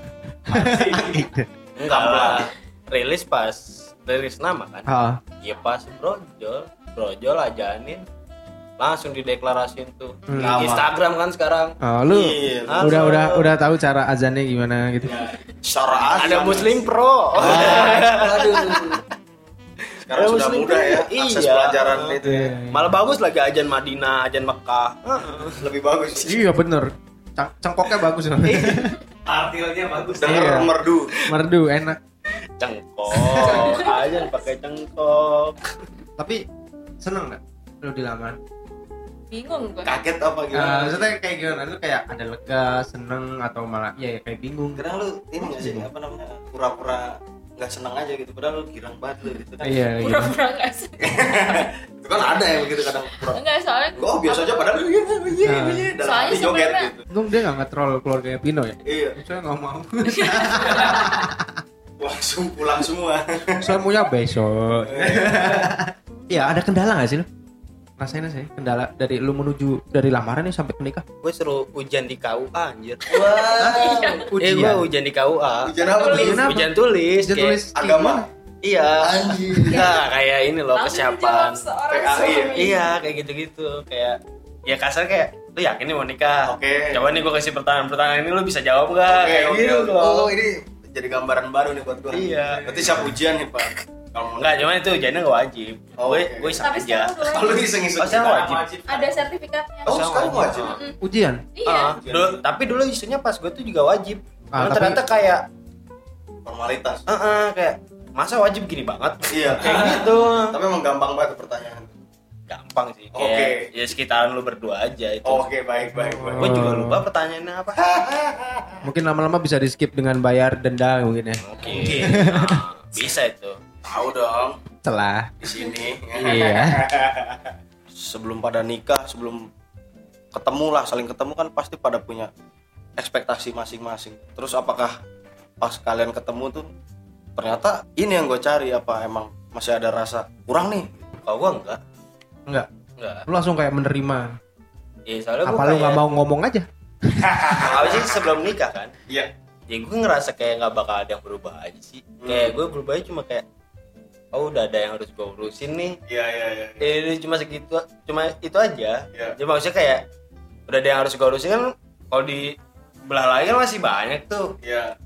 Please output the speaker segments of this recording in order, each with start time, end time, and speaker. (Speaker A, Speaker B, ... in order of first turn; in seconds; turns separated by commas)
Speaker A: 0.5-1.5, Speaker B: 0.6-1.1, Speaker C: 1.8-4.9, Speaker B: 1.9-2.5, Speaker A: 4.9-5.2, Speaker C: 5.4-8.0, Speaker C: 8.8-11.8, Speaker A: 10.3-10.8, Speaker B: 10.4-10.9, Speaker A: 11.8-15.2, Speaker B: 12.1-13.2, Speaker C: 12.7-13.5, Speaker B: 15.6-19.0, Speaker C: 16.1-19.0, Speaker A: 17.4-18.0, Speaker C: 19.8-22.2, Speaker B: 20.1-22.6, Speaker A: 22.2-22.9, Speaker C: 22.7-25.6, Speaker B: 25.5-26.5, Speaker A: 26.2-28.9, Speaker D: 28.5-30.5, Speaker B: 30.2-31.2, Speaker A: 30.2-32.0, Speaker C: 32.6-35.7, Speaker B: 33.2-33.9, Speaker E: 33.5-34.0, Speaker A: 36.2-36.4, Speaker A: 37.0-38.4, Speaker E: 39.3-39.9, Speaker B: 39.8-41.0, Speaker A: 40.5-44.9, Speaker B: 44.7-49.8, Speaker A: 45.4-45.9, Speaker A: 49.6-50.3, Speaker E: 50.0-51.7, Speaker B: 51.0-53.4, Speaker E: 53.2-54.7, Speaker B: 54.0-57.0, Speaker A: 55.4-55.9, Speaker E: 56.0-56.9, Speaker A: 57.1-61.6, Speaker B: 58.8-59.2, Speaker E: 60.0-61.2, Speaker B: 62.0-63.8, Speaker A: 63.6-67.3, Speaker B: 64.8-65.7, Speaker A: 68.0-71.0, Speaker C: 71.2-73.0, Speaker B: 73.1-74.3, Speaker E: 73.1-74.3, Speaker A: 73.6-74.8, Speaker C: 74.4-77.6, Speaker B: 75.6-76.5, Speaker E: 75.8-76.4, Speaker A: 76.0-78.3, Speaker B: 77.7-78.3, Speaker C: 78.6-81.6, Speaker B: 79.0-79.9, Speaker E: 79.7-79.9, Speaker E: 80.7-82.8, Speaker B: 81.9-82.6, Speaker C: 82.5-90.3, Speaker B: 86.5-87.0, Speaker B: 89.0-94.6, Speaker C: 92.1-93.0, Speaker C: 94.3-97.3, Speaker B: 96.0-96.5, Speaker E: 96.6-97.7, Speaker B: 97.2-98.8, Speaker C: 98.0-98.7, Speaker E: 98.8-100.0, Speaker C: 99.8-100.8, Speaker B: 99.8-100.8, Speaker E: 100.5-101.0, Speaker A: 101.0-101.4, Speaker E: 101.5-102.0, Speaker C: 101.7-105.4, Speaker B: 102.0-102.4, Speaker A: 104.5-105.0, Speaker B: 106.4-107.0, Speaker C: 107.1-110.6, Speaker B: 109.3-111.9, Speaker C: 112.5-115.5, Speaker B: 113.1-113.7, Speaker B: 115.2-116.8, Speaker A: 116.0-117.0, Speaker C: 116.4-117.8, Speaker B: 117.8-118.7, Speaker A: 118.8-122.6, Speaker C: 121.4-123.6, Speaker B: 121.6-122.2, Speaker B: 123.8-124.6, Speaker A: 124.8-125.3, Speaker B: 125.4-127.2, Speaker A: 126.1-126.9, Speaker B: 127.9-129.5, Speaker B: 130.3-132.3, Speaker B: 133.0-135.0, Speaker B: 135.6-136.7, Speaker B: 137.4-141.1, Speaker C: 141.2-141.8, Speaker C: 143.0-143.2, Speaker A: 143.2-144.4, Speaker C: 145.1-146.0, Speaker A: 145.4-147.5, Speaker B: 147.4-148.2, Speaker C: 147.5-148.9, Speaker C: 149.7-153.4, Speaker B: 152.2-152.6, Speaker C: 154.3-156.0, Speaker B: 156.1-156.9, Speaker C: 156.8-160.0, Speaker C: 160.7-162.5, Speaker C: 163.1-164.5, Speaker B: 164.6-164.9